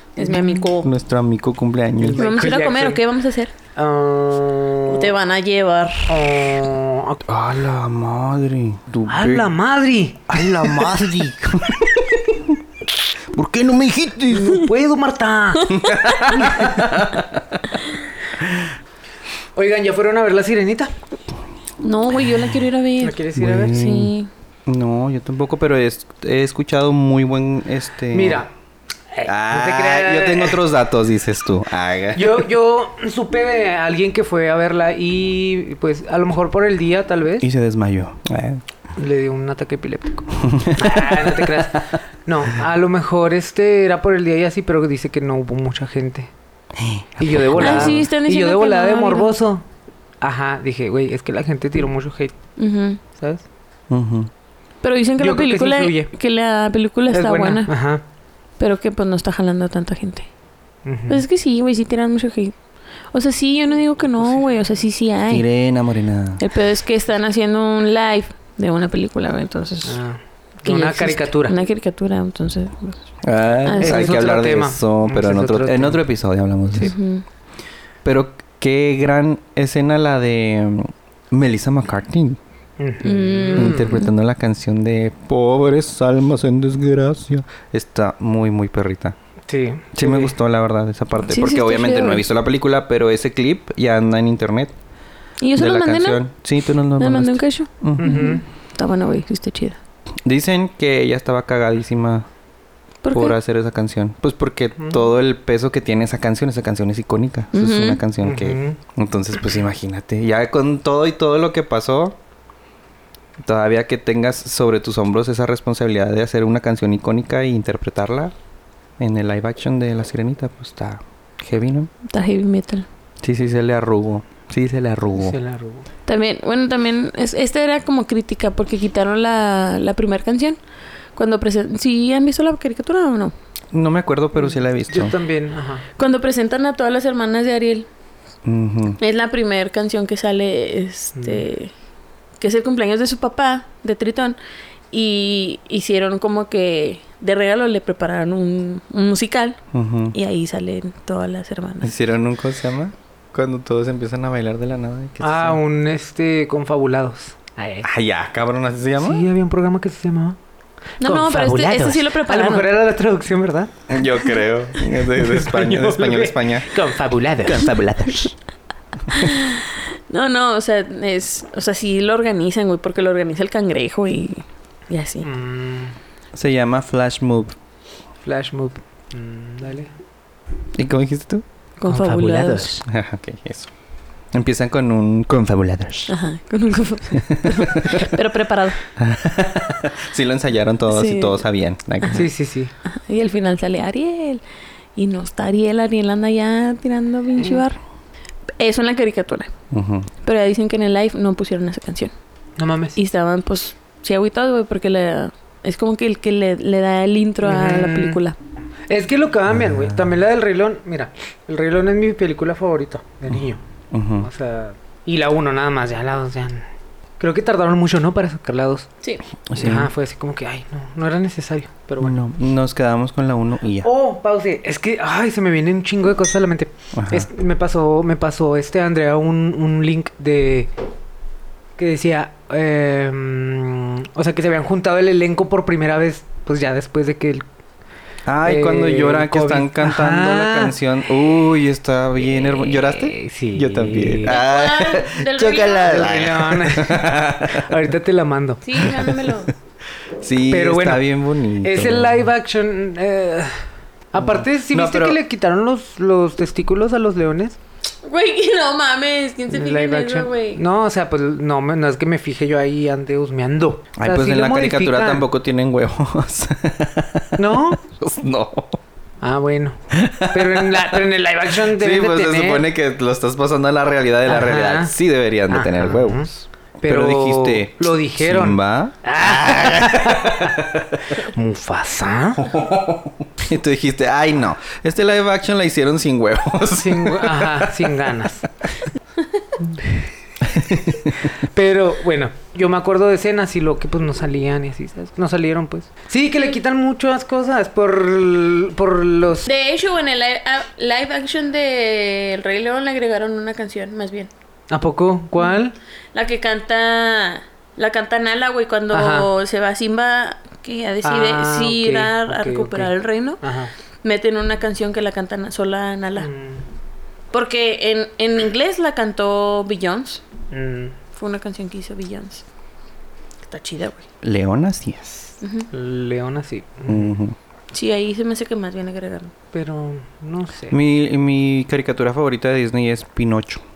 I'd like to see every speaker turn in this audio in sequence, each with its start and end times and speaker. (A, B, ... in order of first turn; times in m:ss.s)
0:00.2-0:00.9 A
0:00.2-0:00.8 B
0:00.7-0:02.2 C
0:02.0-0:03.0 B
0:02.2-0:03.5 A
0:03.7-0:05.1 B
0:04.9-0:06.2 A
0:06.1-0:07.2 B
0:07.2-0:09.5 C
0:09.1-0:10.6 B
0:10.3-0:12.6 C
0:13.3-0:14.6 C
0:14.3-0:15.7 B
0:15.7-0:17.6 C
0:15.7-0:16.4 A
0:16.3-0:16.8 B
0:19.6-0:20.9 B
0:21.8-0:24.3 A
0:23.0-0:23.8 B
0:23.4-0:24.1 C
0:24.6-0:28.4 C
0:28.1-0:28.5 B
0:29.1-0:30.6 B
0:29.2-0:32.4 C
0:32.1-0:37.5 B
0:37.4-0:38.6 C
0:39.0-0:46.3 B
0:40.4-0:41.3 C
0:46.7-0:48.0 C
0:47.2-0:49.6 B
0:47.6-0:49.3 A
0:50.2-0:52.3 B
0:52.6-0:53.0 A
0:53.1-0:53.4 B
0:53.9-0:54.3 C
0:54.8-0:57.7 A
0:55.2-0:56.1 B
0:57.1-0:58.0 B
0:58.6-1:00.3 A
1:00.8-1:01.2 B
1:01.1-1:02.5 A
1:03.1-1:05.4 A
1:05.3-1:06.4 C
1:06.4-1:10.0 A
1:09.8-1:11.5 B
1:10.6-1:13.0 A
1:13.2-1:16.9 C
1:13.6-1:14.2 A
1:13.8-1:16.0 B
1:16.8-1:17.2 A
1:18.0-1:22.4 C
1:22.8-1:24.0 B
1:23.0-1:24.1 A
1:23.5-1:29.2 C
1:29.5-1:30.3 B
1:29.9-1:34.7 C
1:31.2-1:32.2 A
1:35.4-1:36.2 A
1:35.6-1:38.3 C
1:37.0-1:39.8 A
1:38.0-1:38.4 B
1:40.2-1:42.3 C
1:43.0-1:43.3 A
1:43.1-1:52.2 C
1:44.8-1:45.0 B
1:47.5-1:48.0 A
1:48.2-1:48.8 B
1:53.4-1:58.3 C
1:59.0-2:01.9 C
2:02.1-2:02.8 A
2:03.2-2:05.4 C
2:05.2-2:05.9 B
2:06.1-2:10.6 A
2:11.2-2:13.3 A
2:13.7-2:15.2 C
2:14.9-2:15.8 B
2:16.0-2:17.9 A
2:18.4-2:19.0 C
2:19.0-2:21.7 A
2:21.2-2:21.4 B
2:22.4-2:24.4 A
2:24.9-2:29.6 A
2:29.7-2:30.1 C
2:30.1-2:31.9 A
2:31.8-2:35.6 C
2:35.2-2:37.9 B
2:37.8-2:39.2 C
2:39.0-2:40.4 B
2:41.0-2:42.7 A
2:41.0-2:43.7 B
2:43.9-2:46.8 C
2:44.8-2:47.7 B
2:47.4-2:48.3 C
2:49.1-2:55.3 A
2:55.2-2:56.0 B
2:56.3-2:57.6 C
2:58.2-2:59.9 B
3:00.7-3:03.7 C
3:01.8-3:02.8 A
3:04.3-3:06.1 C
3:06.1-3:08.8 A
3:07.2-3:08.1 C
3:09.0-3:12.3 C
3:10.9-3:11.4 A
3:12.1-3:12.7 B
3:12.8-3:14.4 A
3:14.9-3:17.8 A
3:18.6-3:19.5 A
3:19.7-3:20.1 C
3:20.2-3:22.1 A
3:22.6-3:23.0 B
3:22.9-3:28.4 A
3:27.4-3:28.2 B
3:28.9-3:33.6 B
3:33.9-3:34.3 C
3:34.2-3:36.6 B
3:37.2-3:38.9 B
3:39.5-3:39.9 C
3:39.6-3:42.2 B
3:42.0-3:43.9 C
3:43.8-3:50.7 B
3:46.9-3:47.3 C
3:51.8-3:57.4 B
3:58.2-4:07.7 C
3:58.4-4:00.8 B
4:02.2-4:04.4 B
4:04.2-4:06.1 A
4:05.9-4:08.8 B
4:08.6-4:09.5 A
4:08.8-4:09.4 C
4:10.2-4:12.2 C
4:10.5-4:17.6 B
4:14.2-4:15.2 C
4:18.0-4:20.6 A
4:19.5-4:25.3 B
4:24.0-4:28.8 C
4:27.4-4:27.8 B
4:29.2-4:32.6 B
4:29.9-4:31.0 C
4:31.6-4:41.2 C
4:34.2-4:34.9 B
4:35.5-4:36.3 B
4:36.8-4:42.6 B
4:42.4-4:48.1 C
4:46.8-4:48.5 B
4:49.8-4:50.0 B
4:50.4-4:51.3 C
4:51.4-4:59.5 B
4:59.4-5:04.3 A
5:04.7-5:05.7 B
5:06.1-5:13.4 A
5:08.9-5:09.3 B
5:11.0-5:13.7 B
5:14.0-5:16.3 A
5:16.2-5:16.6 B
5:17.3-5:20.2 A
5:20.5-5:20.9 B
5:21.2-5:22.4 A
5:23.4-5:24.0 A
5:24.2-5:25.4 C
5:25.4-5:25.7 A
5:25.7-5:27.1 B
5:26.9-5:27.3 C
5:27.7-5:29.3 A
5:29.5-5:30.8 B
5:30.7-5:33.6 C